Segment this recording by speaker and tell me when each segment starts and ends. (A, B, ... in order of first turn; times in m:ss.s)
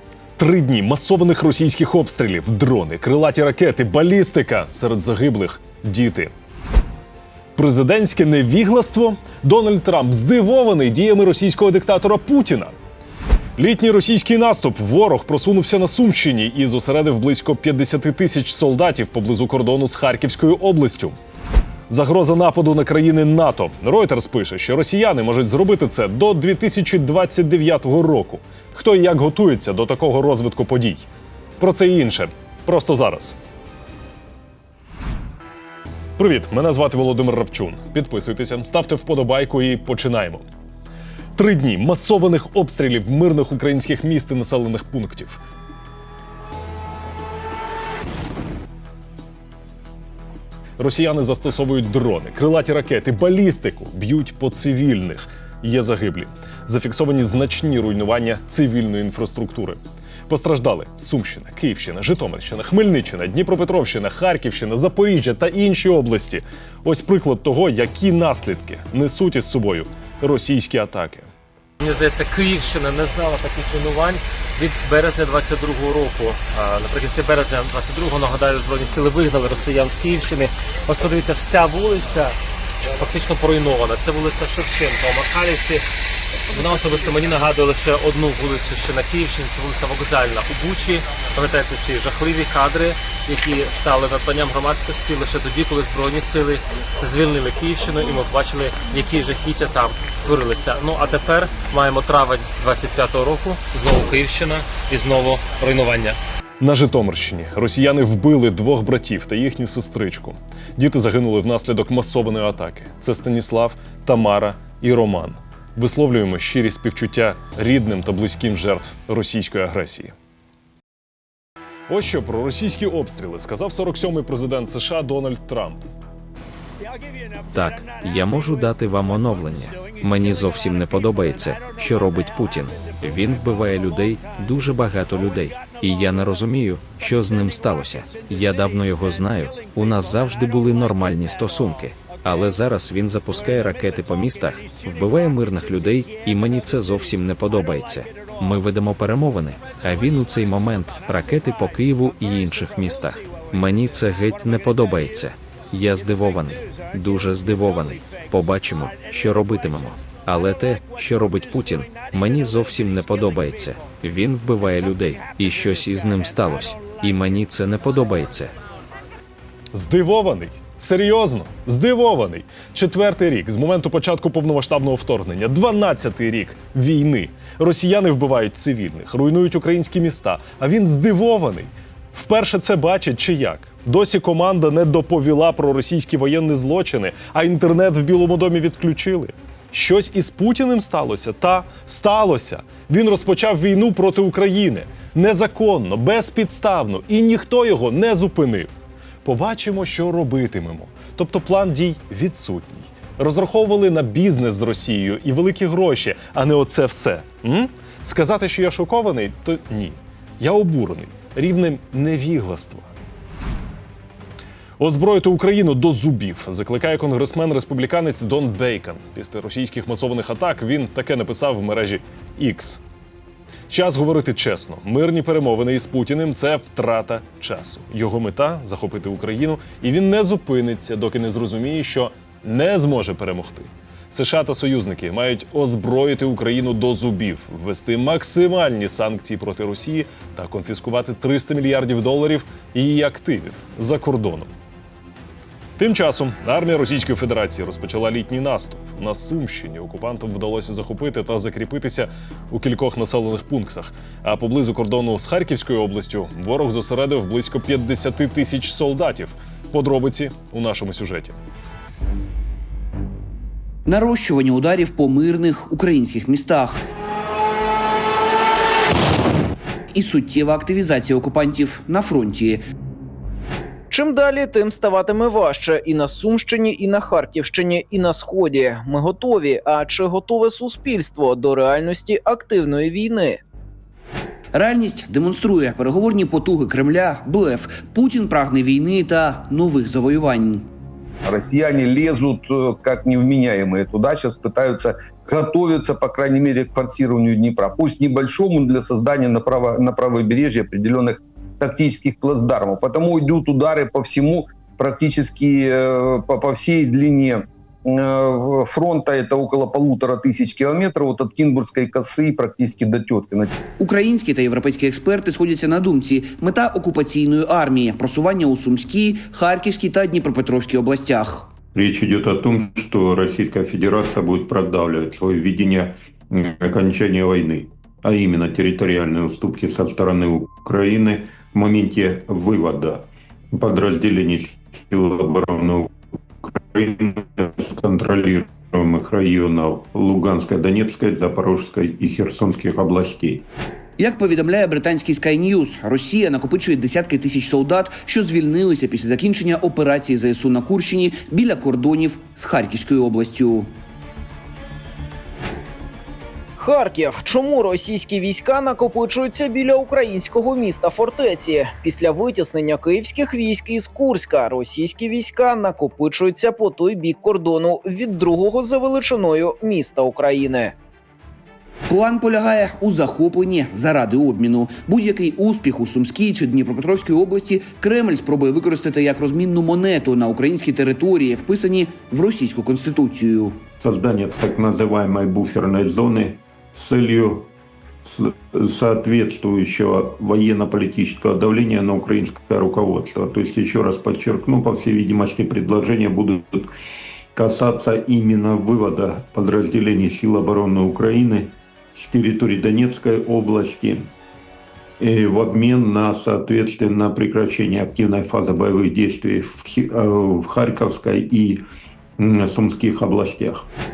0:00.4-0:06.3 A
0:07.6-0:12.8 A
0:13.6-0:21.2 A
0:21.9-0:31.0 A
0:31.6-0:33.4 A
0:36.2-0:40.5 A
0:41.4-0:45.4 A
0:50.8-1:11.3 A
1:11.8-1:22.4 B
1:22.9-1:25.8 B
1:26.5-1:46.2 B
1:46.6-2:00.2 A
2:01.9-2:05.8 A
2:07.5-2:48.5 C
2:49.7-3:18.7 A
3:19.2-3:33.0 A
3:34.8-3:42.8 A
3:43.7-4:04.5 A
4:05.8-4:21.4 A
4:23.9-4:26.8 D
4:29.9-4:32.6 D
4:33.9-4:43.4 E
4:44.5-4:50.7 D
4:51.2-5:13.5 F
5:13.8-5:21.5 D
5:21.7-5:43.5 G
5:44.0-5:53.7 D
5:56.6-6:10.7 E
6:11.9-6:23.6 D
6:23.8-6:27.5 G
6:28.0-6:36.7 G
6:37.4-6:44.1 G
6:45.0-6:51.6 G
6:52.2-6:53.7 G